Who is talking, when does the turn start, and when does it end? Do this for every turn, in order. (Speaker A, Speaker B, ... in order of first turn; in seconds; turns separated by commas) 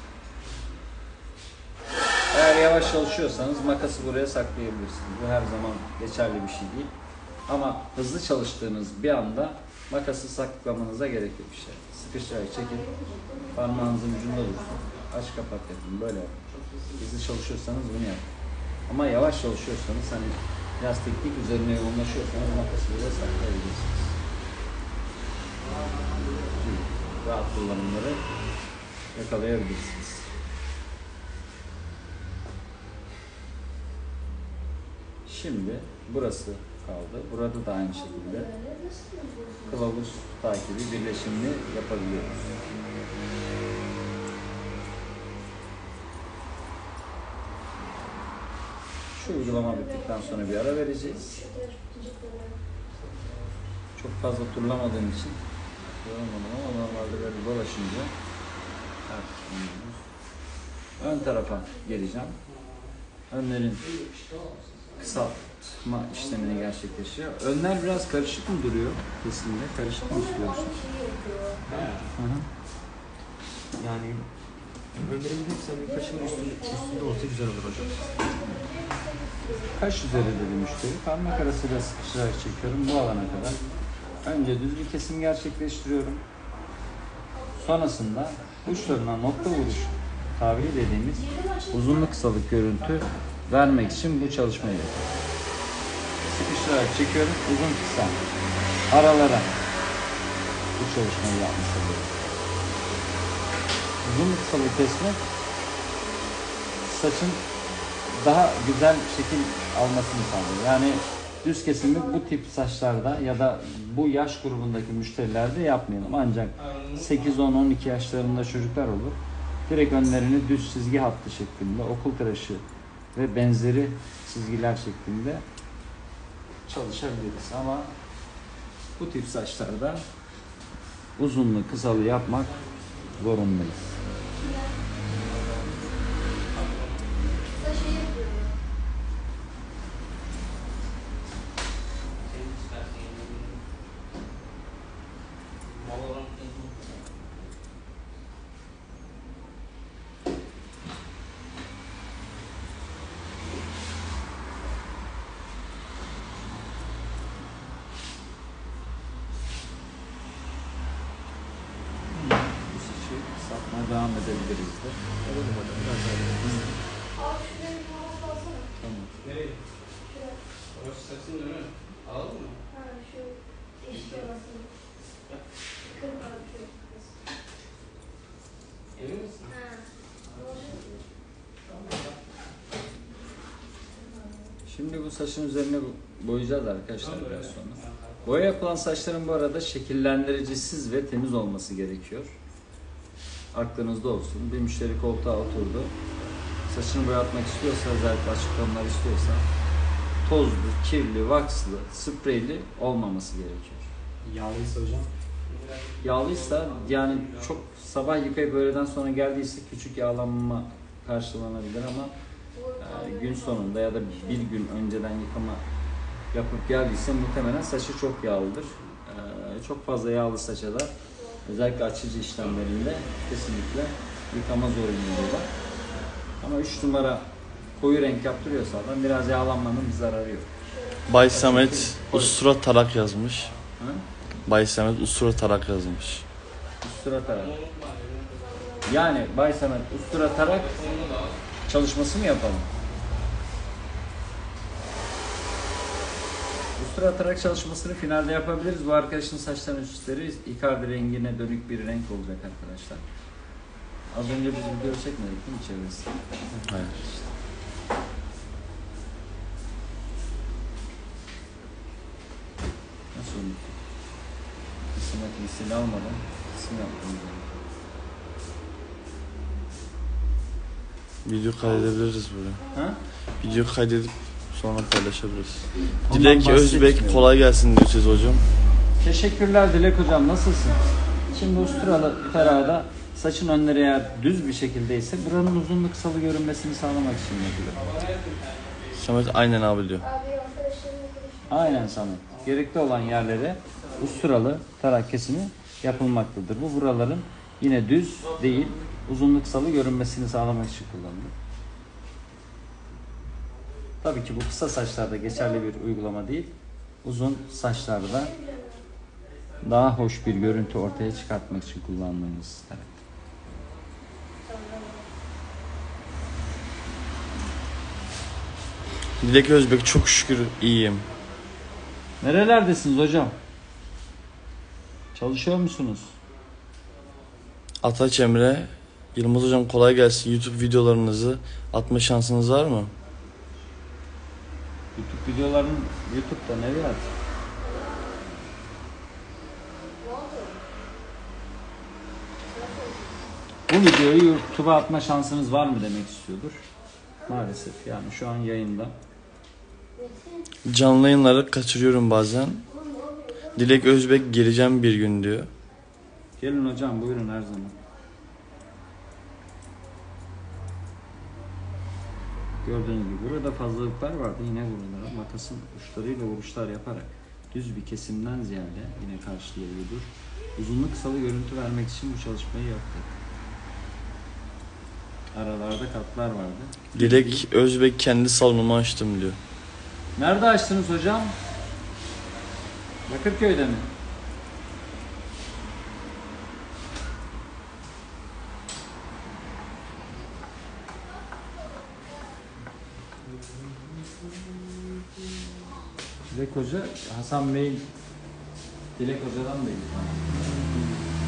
Speaker A: 2.3-6.9, Speaker A: 7.5-12.9, Speaker B: 12.5-15.0, Speaker A: 13.5-16.4, Speaker C: 13.7-15.1, Speaker C: 16.5-17.1, Speaker A: 17.0-18.3, Speaker A: 18.9-24.1, Speaker B: 22.0-22.8, Speaker C: 25.6-26.8, Speaker A: 26.5-28.2, Speaker A: 29.1-30.3, Speaker A: 35.3-38.5, Speaker B: 37.9-39.9, Speaker A: 39.7-42.6, Speaker A: 49.1-51.4, Speaker B: 49.2-52.6, Speaker C: 52.9-53.5, Speaker A: 54.0-55.4, Speaker A: 55.9-58.1, Speaker A: 59.1-60.0, Speaker B: 61.0-62.0, Speaker A: 61.0-62.4, Speaker C: 62.5-63.0, Speaker A: 63.3-63.9, Speaker C: 63.8-65.3, Speaker A: 65.0-70.7, Speaker C: 66.1-66.9, Speaker B: 70.0-71.7, Speaker C: 71.7-72.1, Speaker A: 72.1-72.5, Speaker D: 73.8-74.3, Speaker D: 75.0-78.0, Speaker B: 75.7-79.9, Speaker A: 79.7-83.6, Speaker C: 80.1-80.9, Speaker C: 82.7-83.8, Speaker A: 84.2-86.2, Speaker B: 87.3-88.2, Speaker A: 87.6-95.1, Speaker B: 88.7-90.0, Speaker B: 91.1-92.3, Speaker C: 93.6-95.1, Speaker A: 96.2-98.2, Speaker A: 98.9-99.5, Speaker A: 100.8-102.1, Speaker A: 104.0-105.2, Speaker A: 106.8-107.4, Speaker A: 108.1-122.6, Speaker B: 111.8-112.3, Speaker C: 116.6-117.4, Speaker A: 123.2-125.4, Speaker A: 126.7-127.9, Speaker A: 129.0-130.0, Speaker A: 131.2-132.5, Speaker C: 132.0-133.2, Speaker A: 133.2-133.9, Speaker B: 134.4-134.8, Speaker C: 135.1-136.0, Speaker C: 136.5-137.4, Speaker B: 137.6-138.5, Speaker C: 142.2-143.6, Speaker C: 145.7-146.9, Speaker A: 162.2-165.0, Speaker D: 165.2-166.7, Speaker A: 166.4-166.7, Speaker B: 167.2-168.7, Speaker A: 168.8-169.1, Speaker C: 169.2-169.6, Speaker B: 170.1-170.4, Speaker C: 170.7-172.6, Speaker B: 172.7-174.7, Speaker C: 173.9-174.3, Speaker B: 175.8-177.2, Speaker C: 178.9-179.5, Speaker B: 179.5-181.0, Speaker C: 181.7-182.2, Speaker B: 183.9-184.6, Speaker A: 184.7-192.3, Speaker C: 187.0-188.5, Speaker A: 193.5-195.9, Speaker A: 196.7-199.4, Speaker A: 200.2-203.9, Speaker D: 204.2-205.1, Speaker C: 205.5-207.7, Speaker A: 206.0-212.1, Speaker B: 212.5-214.5, Speaker A: 212.8-215.6, Speaker A: 216.3-220.9, Speaker B: 221.2-221.5, Speaker A: 221.4-225.5, Speaker C: 222.3-223.2, Speaker B: 225.1-225.8, Speaker A: 226.4-227.3, Speaker A: 227.8-230.5, Speaker B: 230.6-231.7, Speaker E: 231.1-233.5, Speaker A: 231.2-232.4, Speaker E: 234.5-236.2, Speaker A: 236.8-237.6, Speaker C: 237.3-238.6, Speaker B: 238.4-239.2, Speaker A: 238.9-240.8, Speaker B: 240.1-241.3, Speaker C: 240.3-241.4, Speaker A: 241.7-242.7, Speaker A: 246.8-253.0, Speaker A: 254.1-256.2, Speaker E: 256.7-257.0, Speaker A: 263.1-263.8, Speaker A: 264.9-267.6, Speaker E: 271.2-272.6, Speaker A: 272.7-273.0, Speaker E: 273.4-278.4, Speaker A: 276.1-277.3, Speaker A: 279.0-280.8, Speaker B: 280.9-282.0, Speaker A: 281.3-287.8, Speaker C: 282.3-282.7, Speaker C: 287.7-289.1, Speaker E: 288.9-290.1, Speaker B: 290.0-291.9, Speaker A: 291.5-301.3, Speaker C: 293.8-294.2, Speaker C: 298.3-298.9, Speaker A: 304.0-308.3, Speaker B: 308.0-308.8, Speaker A: 309.6-312.9, Speaker B: 314.4-315.0, Speaker E: 319.2-321.1, Speaker A: 322.2-323.4, Speaker A: 325.1-326.1, Speaker E: 327.8-332.9, Speaker A: 335.0-337.1, Speaker B: 337.6-338.2, Speaker B: 340.0-340.6, Speaker B: 342.5-343.1, Speaker A: 343.7-346.6, Speaker A: 347.3-348.9, Speaker B: 350.0-350.5, Speaker E: 350.7-352.7, Speaker B: 352.7-353.8, Speaker E: 353.6-355.5, Speaker A: 356.4-357.8, Speaker A: 362.6-373.1, Speaker A: 375.3-377.4, Speaker E: 376.9-379.4, Speaker A: 380.2-381.4, Speaker A: 383.1-383.9, Speaker A: 396.3-397.9, Speaker A: 399.0-400.3, Speaker D: 400.4-400.8